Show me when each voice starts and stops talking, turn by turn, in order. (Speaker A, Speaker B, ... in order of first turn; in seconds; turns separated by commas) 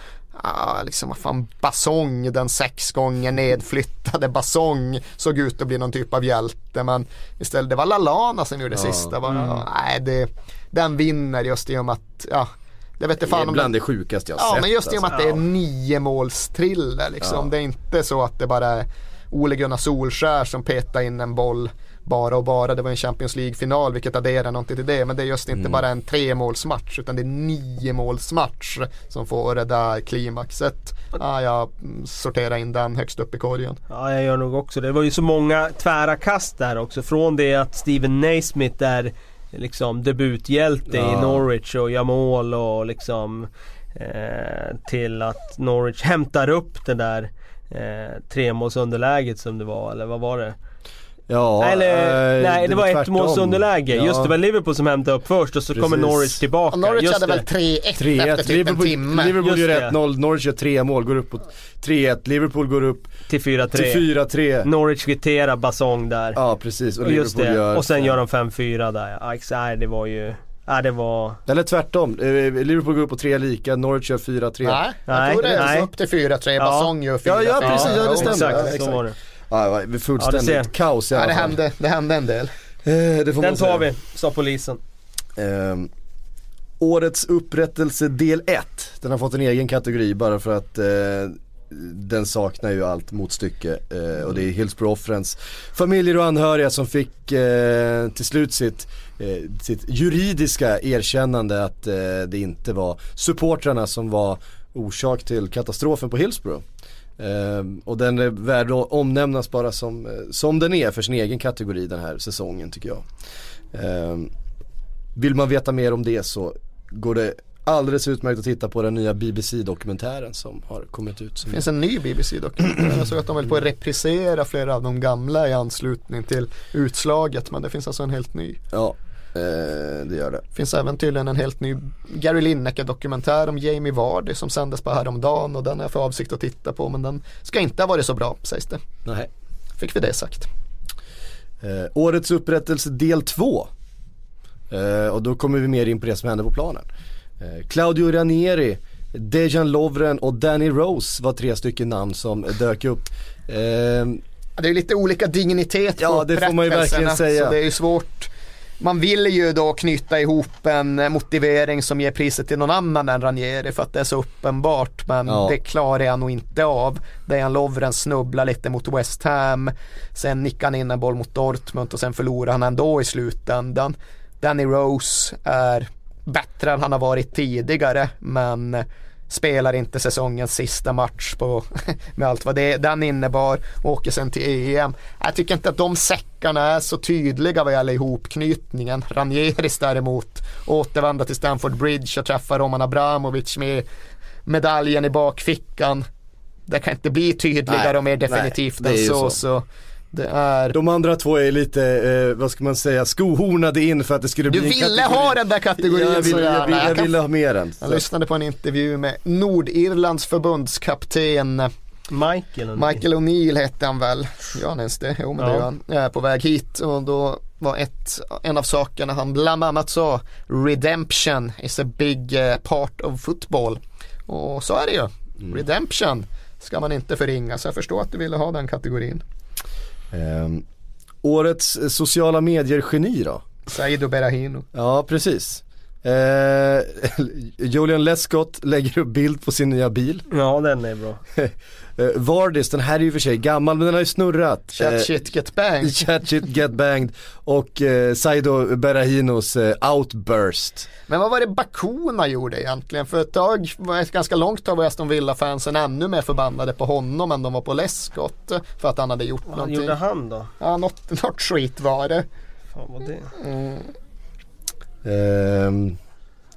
Speaker A: 0.3-13.7, Speaker B: 8.7-9.1, Speaker C: 9.3-9.6, Speaker B: 13.2-15.1, Speaker A: 14.3-33.8, Speaker B: 17.2-17.5, Speaker B: 25.6-25.8, Speaker C: 33.9-50.5, Speaker B: 40.9-41.4, Speaker B: 51.3-54.3, Speaker C: 51.6-57.4, Speaker B: 55.7-56.4, Speaker A: 56.7-59.3, Speaker B: 58.0-63.1, Speaker C: 59.4-59.9, Speaker C: 63.3-64.1, Speaker B: 63.7-64.7, Speaker C: 64.6-66.4, Speaker B: 66.3-68.2, Speaker C: 67.0-71.4, Speaker B: 71.5-75.7, Speaker A: 74.6-78.7, Speaker C: 75.1-75.9, Speaker C: 76.6-76.9, Speaker B: 77.2-81.6, Speaker C: 77.6-79.1, Speaker C: 80.2-80.7, Speaker A: 81.1-82.5, Speaker B: 82.8-83.9, Speaker C: 83.4-84.8, Speaker B: 85.4-85.9, Speaker B: 86.8-106.6, Speaker B: 107.2-113.0, Speaker B: 113.7-114.3, Speaker B: 115.1-121.6, Speaker A: 121.5-128.6, Speaker B: 128.7-130.4, Speaker A: 130.5-138.8, Speaker A: 139.8-140.5, Speaker B: 141.6-143.7, Speaker B: 144.7-146.9, Speaker B: 147.4-154.2, Speaker A: 154.6-193.8, Speaker B: 156.0-157.6, Speaker B: 165.2-165.5, Speaker A: 194.4-196.0, Speaker A: 196.7-200.8, Speaker B: 197.7-199.4, Speaker B: 200.7-208.0, Speaker A: 204.5-207.2, Speaker A: 207.8-211.7, Speaker C: 212.1-213.0, Speaker A: 212.7-229.2, Speaker C: 215.4-215.7, Speaker B: 230.1-230.6, Speaker B: 231.2-233.4, Speaker A: 233.7-234.6, Speaker B: 234.7-240.2, Speaker C: 240.3-241.2, Speaker B: 241.3-245.2, Speaker A: 244.8-246.1, Speaker B: 245.8-250.9, Speaker A: 251.1-260.0, Speaker C: 259.5-260.5, Speaker A: 260.6-262.2, Speaker C: 262.7-263.3, Speaker A: 263.4-263.9, Speaker B: 265.0-266.0